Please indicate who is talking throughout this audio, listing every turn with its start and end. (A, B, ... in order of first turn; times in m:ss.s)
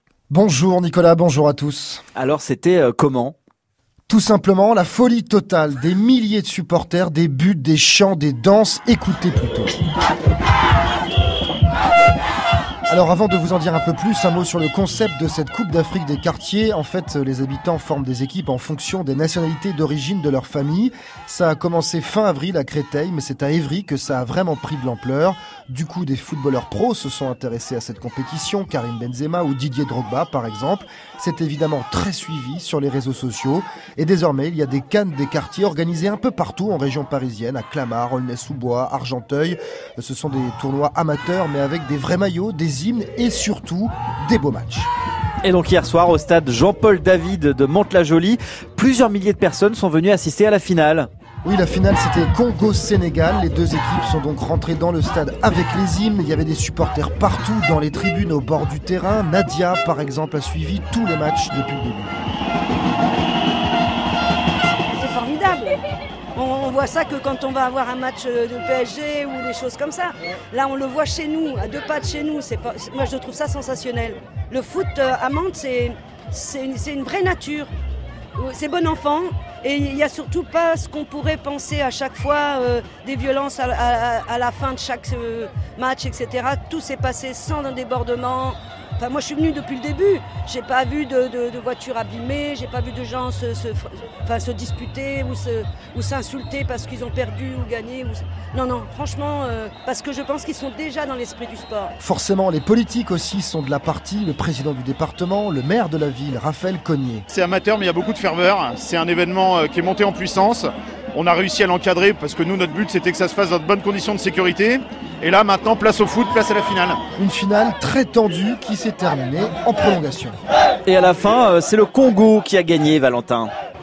0:00.3-0:02.0 A
0:02.2-0:03.4 B
0:04.1-0:09.8 A
0:12.9-0:44.9 A
0:45.4-0:51.1 B
0:51.4-1:02.2 A
1:04.9-1:05.8 C
1:06.4-1:17.7 C
1:18.4-1:41.9 C
1:42.0-1:47.2 A
1:47.3-1:57.0 D
1:57.2-2:00.4 A
2:00.9-2:03.5 B